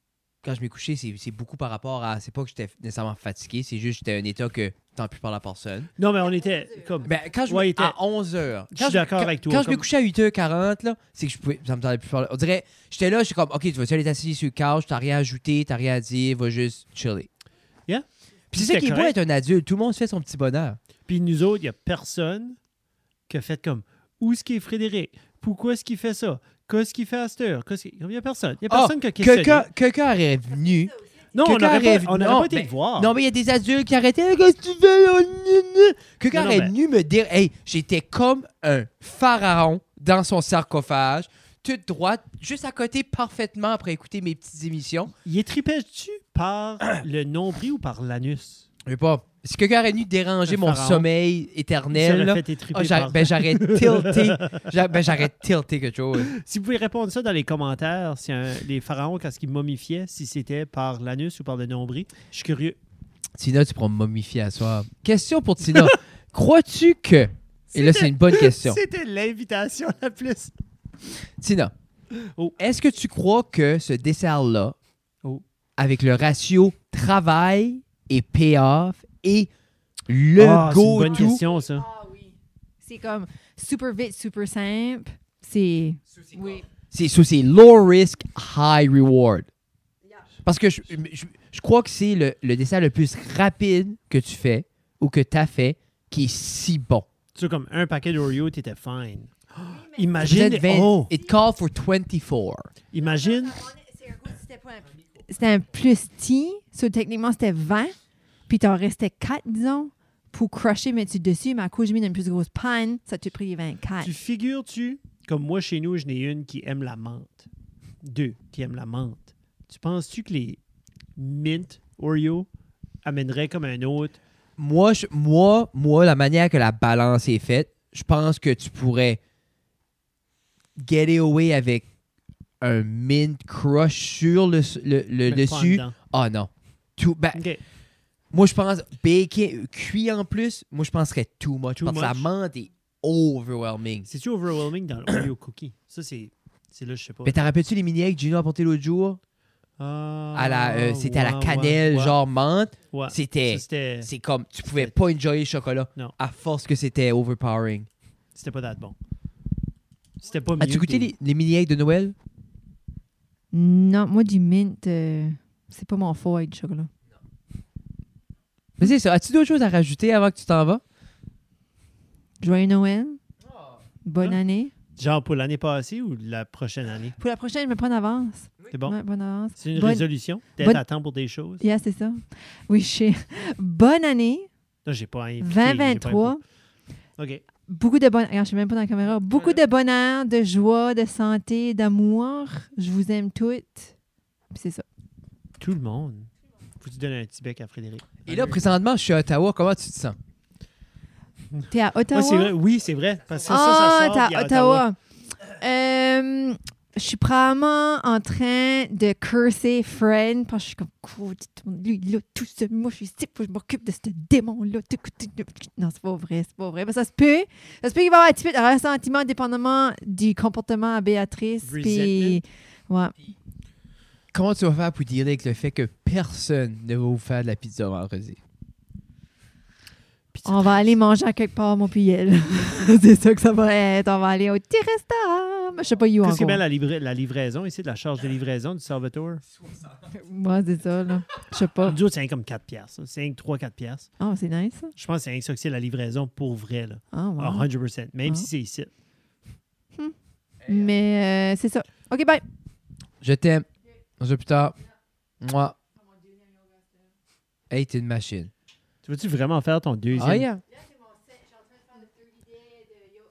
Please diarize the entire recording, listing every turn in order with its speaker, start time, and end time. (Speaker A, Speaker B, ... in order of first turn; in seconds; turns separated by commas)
Speaker A: 0.4-5.9, Speaker B: 6.0-8.0, Speaker A: 7.0-17.3, Speaker B: 8.7-9.8, Speaker B: 17.9-19.1, Speaker A: 18.5-20.8, Speaker B: 21.1-22.6, Speaker B: 23.3-29.7, Speaker A: 28.7-45.1, Speaker B: 31.3-33.1, Speaker B: 36.3-36.7, Speaker B: 45.2-48.7, Speaker A: 48.9-56.3, Speaker B: 50.5-51.1, Speaker B: 51.9-54.7, Speaker B: 56.2-62.8, Speaker A: 63.4-68.8, Speaker B: 67.7-70.5, Speaker A: 71.4-71.7, Speaker B: 72.1-72.5, Speaker A: 72.6-74.7, Speaker A: 75.8-79.5, Speaker A: 80.1-81.4, Speaker B: 80.3-81.9, Speaker C: 81.9-86.6, Speaker A: 86.8-89.5, Speaker A: 90.4-97.0, Speaker B: 97.3-101.1, Speaker A: 100.2-102.7, Speaker B: 102.9-103.7, Speaker C: 103.6-108.0, Speaker C: 108.5-114.1, Speaker B: 114.0-117.5, Speaker B: 118.0-120.6, Speaker B: 121.2-122.5, Speaker B: 123.0-124.2, Speaker A: 124.6-129.2, Speaker A: 130.8-131.8, Speaker A: 132.6-137.4, Speaker B: 135.3-135.9, Speaker B: 137.3-137.6, Speaker A: 138.3-144.1, Speaker B: 141.8-142.3, Speaker B: 144.1-147.4, Speaker A: 147.2-149.2, Speaker B: 149.8-152.2, Speaker A: 150.3-157.9, Speaker B: 152.9-154.1, Speaker B: 158.3-159.0, Speaker B: 160.2-161.1, Speaker A: 160.6-162.1, Speaker C: 163.5-166.9, Speaker A: 168.8-170.8, Speaker C: 172.4-173.2, Speaker A: 173.5-173.8, Speaker C: 174.0-174.7, Speaker B: 174.9-177.2, Speaker C: 177.2-180.1, Speaker B: 178.7-179.0, Speaker B: 179.6-181.6, Speaker C: 181.6-184.5, Speaker B: 184.8-186.4, Speaker C: 185.4-186.4, Speaker B: 187.2-187.4, Speaker C: 187.7-193.9, Speaker B: 189.3-189.6, Speaker C: 194.5-194.8, Speaker B: 195.6-198.7, Speaker A: 198.2-200.2, Speaker B: 201.5-204.8, Speaker C: 201.7-202.5, Speaker C: 203.5-223.1, Speaker B: 221.6-222.4, Speaker A: 224.3-228.4, Speaker B: 230.3-231.0, Speaker C: 230.4-236.6, Speaker B: 236.2-239.4, Speaker C: 240.0-242.0, Speaker B: 241.8-244.1, Speaker C: 244.2-244.9, Speaker B: 244.9-248.9, Speaker C: 247.1-247.7, Speaker C: 249.9-252.4, Speaker A: 253.2-253.7, Speaker A: 254.2-254.8, Speaker A: 255.4-255.8, Speaker A: 257.7-258.5, Speaker B: 259.0-260.5, Speaker A: 260.2-260.6